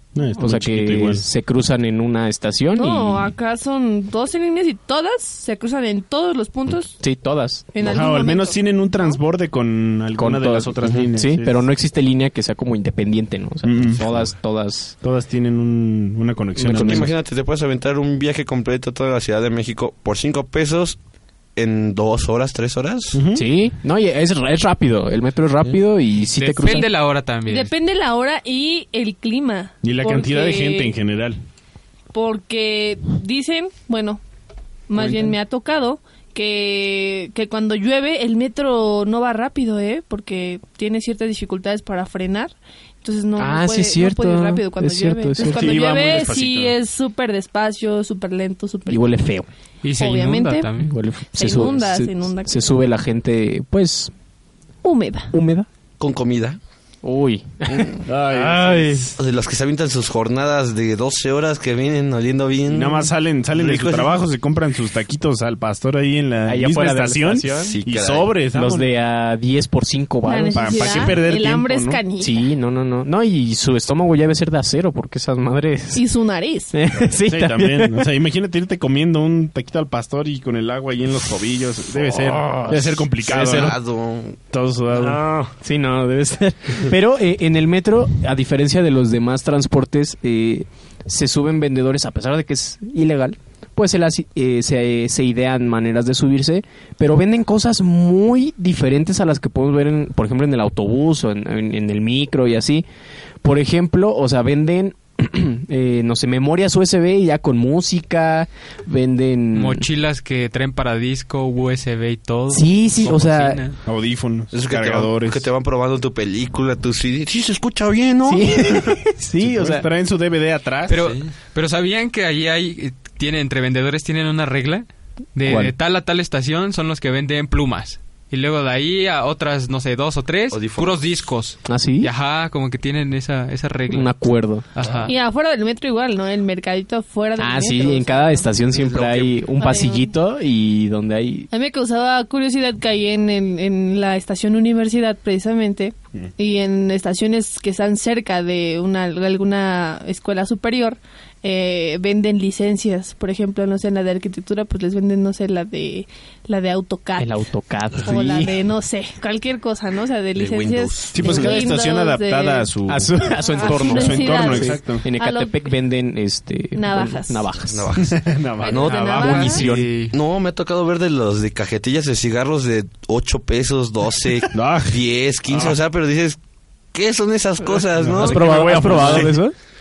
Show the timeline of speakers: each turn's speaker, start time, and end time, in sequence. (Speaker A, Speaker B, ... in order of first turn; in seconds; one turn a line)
Speaker A: 0.1-1.2
Speaker B: 0.4-3.3
Speaker C: 2.7-7.0
Speaker B: 7.0-7.7
Speaker C: 7.7-9.2
Speaker A: 7.8-11.7
Speaker B: 10.2-14.9
Speaker A: 13.6-14.2
Speaker A: 15.0-17.1
Speaker B: 16.6-17.1
Speaker D: 16.7-21.0
Speaker D: 21.6-23.2
Speaker A: 23.1-23.4
Speaker B: 23.3-26.9
Speaker E: 26.3-27.7
Speaker C: 27.4-30.9
Speaker A: 29.8-31.4
Speaker C: 32.1-34.2
Speaker C: 34.9-49.1
Speaker B: 35.0-35.2
Speaker B: 43.4-45.8
Speaker A: 45.4-46.8
Speaker B: 48.9-49.5
Speaker E: 49.8-50.9
Speaker C: 49.9-50.7
Speaker B: 50.8-54.1
Speaker C: 51.3-52.8
Speaker C: 54.8-55.3
Speaker B: 55.3-55.7
Speaker D: 56.0-56.6
Speaker B: 57.0-59.1
Speaker D: 57.7-58.0
Speaker A: 58.0-59.2
Speaker D: 59.2-64.2
Speaker A: 62.7-68.9
Speaker B: 66.4-67.8
Speaker D: 67.6-68.3
Speaker B: 68.5-71.2
Speaker C: 70.2-72.4
Speaker A: 70.5-72.0
Speaker B: 72.2-76.0
Speaker C: 75.9-76.7
Speaker B: 76.7-78.1
Speaker A: 77.1-83.8
Speaker B: 81.9-83.7
Speaker D: 83.3-84.4
Speaker A: 84.5-85.2
Speaker B: 84.9-102.8
Speaker B: 103.4-109.9
Speaker E: 109.5-113.8
Speaker B: 112.5-113.6
Speaker A: 113.8-115.5
Speaker D: 114.5-118.9
Speaker B: 118.2-119.9
Speaker A: 119.4-121.0
Speaker E: 120.9-134.1
Speaker D: 120.9-121.2
Speaker B: 125.4-125.7
Speaker D: 130.5-131.2
Speaker B: 131.7-132.1
Speaker B: 133.9-134.6
Speaker E: 134.7-135.1
Speaker D: 134.8-135.1
Speaker C: 135.1-138.5
Speaker B: 137.4-141.5
Speaker D: 138.7-139.4
Speaker C: 139.6-140.1
Speaker C: 141.5-157.4
Speaker B: 157.2-158.6
Speaker C: 157.9-162.7
Speaker D: 160.3-161.5
Speaker A: 161.1-165.1
Speaker B: 162.9-167.9
Speaker C: 163.4-165.6
Speaker C: 166.7-167.5
Speaker D: 167.6-169.5
Speaker A: 168.0-168.9
Speaker C: 168.6-169.6
Speaker E: 168.8-170.1
Speaker B: 169.2-169.9
Speaker D: 170.1-176.4
Speaker A: 174.5-175.8
Speaker D: 176.9-179.3
Speaker A: 177.9-179.4
Speaker B: 178.2-179.5